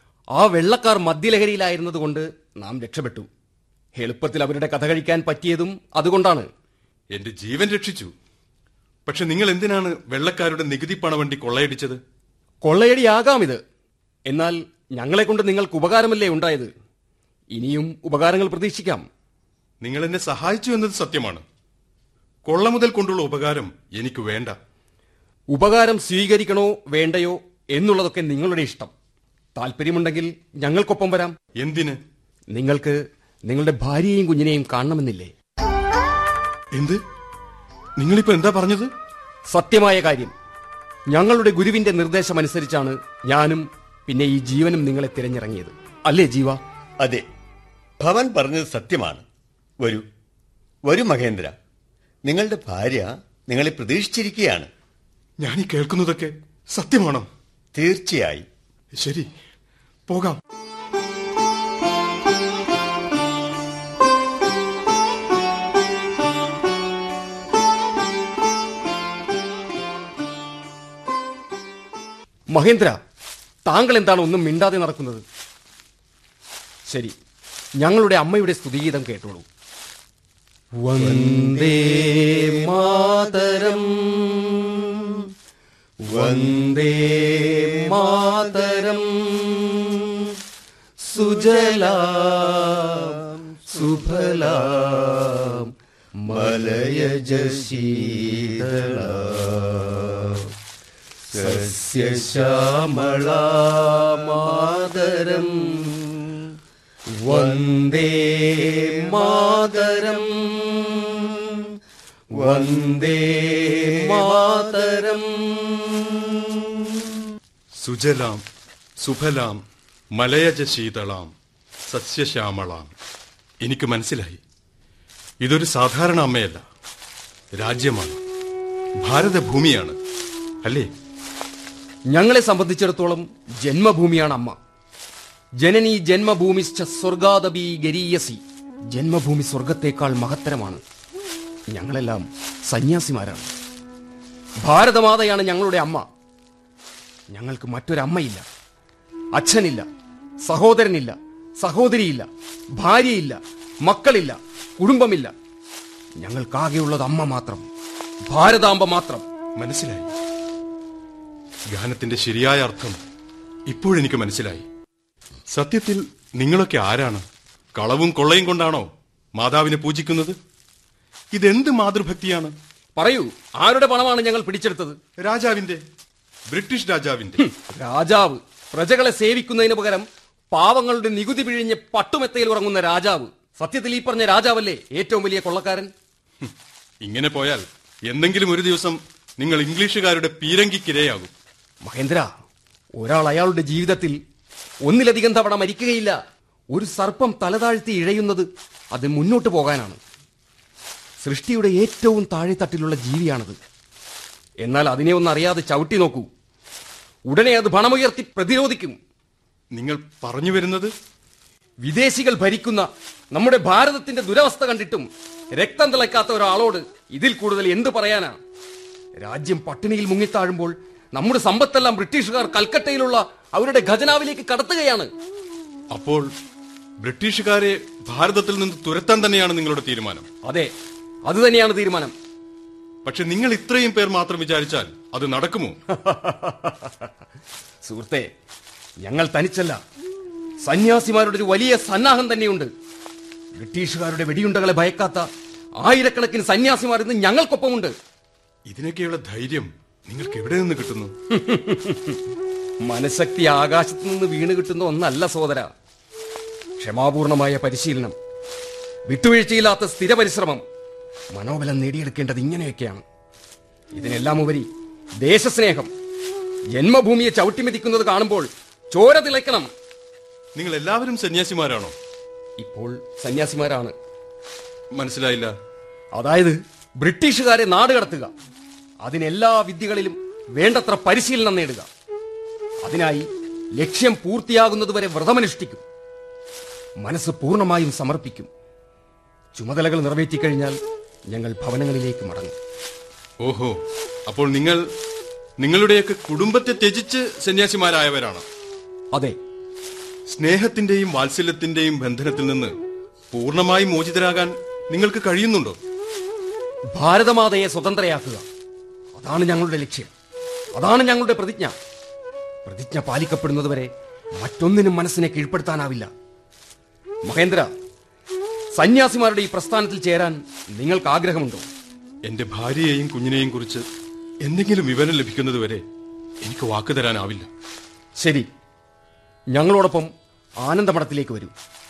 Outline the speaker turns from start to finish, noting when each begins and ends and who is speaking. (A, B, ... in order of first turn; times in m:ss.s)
0:00.3-0:03.3 A
0:04.0-0:06.5 A
0:07.1-0:08.1 B
0:09.1-0:12.0 B
0:12.6-0:13.6 A
0:14.3-0:16.7 A
0:17.5-0:19.1 A
0:19.8-0:21.4 B
0:22.5-0:24.6 B
0:25.5-0:28.9 A
0:29.6-0:31.4 A
0:31.6-0:32.0 B
0:32.5-0:35.3 A
0:36.7-0:37.0 B
0:38.0-0:38.9 B
0:39.5-0:40.3 A
0:41.1-0:46.6 A
0:48.0-0:49.2 C
0:50.8-0:51.6 C
0:52.3-0:54.7 C
0:55.4-0:57.3 B
0:57.7-0:58.4 C
0:59.0-0:59.3 B
1:00.1-1:00.4 B
1:12.5-1:13.0 A
1:13.6-1:15.2 A
1:16.9-1:17.2 A
1:17.8-1:19.4 A
1:20.8-1:24.6 A
1:21.1-1:21.4 C
1:26.1-1:30.0 A
1:26.2-1:26.5 C
1:31.1-1:33.1 A
1:33.7-1:35.2 A
1:36.3-1:36.9 C
1:36.3-1:38.9 A
1:39.2-1:39.7 C
1:41.4-1:41.7 C
1:41.4-1:45.6 A
1:47.3-1:50.6 A
1:52.5-1:55.8 A
1:57.8-1:58.4 B
1:59.0-1:59.6 B
2:00.2-2:01.3 B
2:01.9-2:02.9 B
2:03.6-2:04.4 B
2:05.4-2:06.6 B
2:07.6-2:08.2 B
2:09.0-2:10.0 B
2:10.6-2:10.9 B
2:12.1-2:14.6 A
2:15.6-2:20.8 A
2:21.7-2:23.5 A
2:24.6-2:26.1 A
2:27.3-2:28.4 A
2:29.3-2:29.8 A
2:30.4-2:32.3 A
2:32.8-2:35.3 A
2:36.2-2:37.7 A
2:38.3-2:39.2 A
2:39.6-2:40.1 B
2:41.7-2:43.0 B
2:43.7-2:44.6 B
2:45.5-2:47.2 B
2:47.8-2:50.4 B
2:51.3-2:52.5 B
2:53.0-2:55.0 A
2:55.2-2:55.8 B
2:56.5-2:57.4 B
2:57.4-3:05.9 A
3:07.0-3:11.3 B
3:11.8-3:12.3 A
3:13.0-3:14.2 A
3:14.8-3:16.2 A
3:16.7-3:20.0 A
3:21.2-3:23.6 A
3:24.6-3:26.3 A
3:27.3-3:29.0 A
3:29.7-3:30.9 B
3:31.8-3:38.4 A
3:39.2-3:45.1 A
3:45.9-3:46.3 B
3:47.0-3:50.3 B
3:50.4-3:50.7 A
3:51.3-3:52.1 A
3:53.1-3:55.8 B
3:55.9-3:56.9 A
3:57.8-3:58.3 A
3:59.0-3:59.8 A
4:00.6-4:02.7 A
4:03.6-4:05.3 A
4:05.8-4:07.9 A
4:08.7-4:11.1 B
4:11.3-4:12.2 A
4:12.8-4:15.7 A
4:16.8-4:18.2 A
4:19.1-4:20.6 A
4:21.3-4:23.0 A
4:23.9-4:24.7 A
4:25.2-4:25.9 A
4:26.7-4:29.7 A
4:30.6-4:32.0 B
4:32.6-4:33.9 A
4:35.0-4:35.5 B
4:36.1-4:38.3 A
4:39.0-4:41.9 A
4:42.8-4:43.3 A
4:43.8-4:45.8 A
4:47.0-4:48.5 A
4:49.6-4:50.8 A
4:51.3-4:52.6 A
4:53.4-4:53.8 B
4:54.3-4:54.8 B
4:55.6-4:58.4 B
5:00.3-5:02.7 B
5:03.3-5:05.8 B
5:06.9-5:08.4 A
5:09.2-5:10.1 A
5:10.7-5:11.8 A
5:12.7-5:16.1 A
5:17.2-5:17.7 A
5:18.8-5:21.7 A
5:22.3-5:23.8 B
5:24.4-5:25.8 B
5:26.4-5:27.5 B
5:28.2-5:28.5 A
5:29.5-5:30.1 A
5:30.6-5:31.5 A